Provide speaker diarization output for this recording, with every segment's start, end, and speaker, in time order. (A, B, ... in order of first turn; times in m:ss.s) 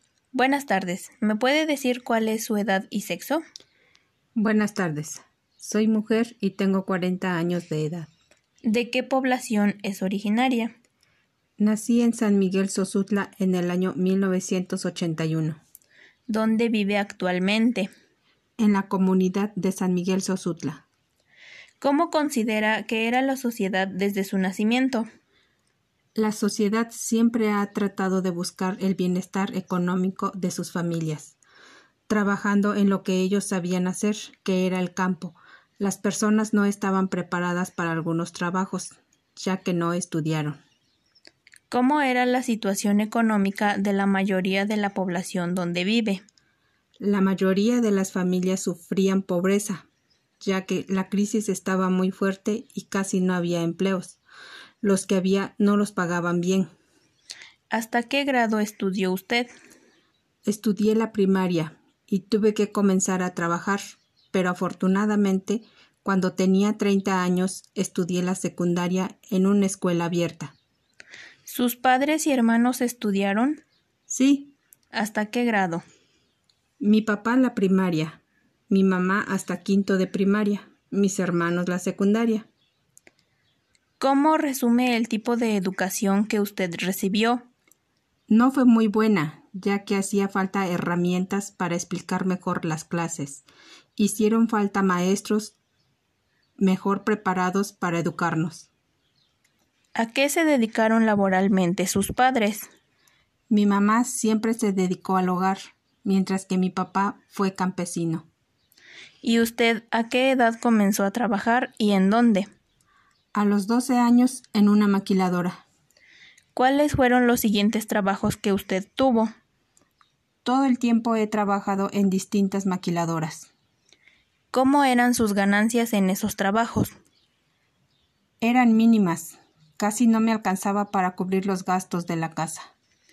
0:00.3-0:03.4 A
0:04.4-0:08.1 B
0:08.6-0:10.7 A
0:11.6-0:15.6 B
0:16.3-0:17.9 A
0:18.6-0:20.8 B
0:21.8-0:25.0 A
0:26.1-0:31.4 B
0:32.1-0:40.6 B
0:41.7-0:46.2 A
0:47.0-0:49.8 B
0:50.4-0:54.2 B
0:54.8-0:56.7 B
0:57.7-0:59.5 A
1:00.4-1:03.8 B
1:04.3-1:10.5 B
1:11.4-1:13.6 A
1:14.1-1:14.5 B
1:14.9-1:15.8 A
1:16.8-1:22.5 B
1:24.0-1:27.4 A
1:28.3-1:33.4 B
1:34.0-1:35.6 B
1:36.6-1:38.7 B
1:40.0-1:42.7 A
1:43.5-1:48.3 B
1:49.2-1:52.5 A
1:53.3-1:55.6 B
1:56.5-1:59.3 A
2:00.4-2:03.5 B
2:04.5-2:06.9 A
2:08.4-2:12.7 B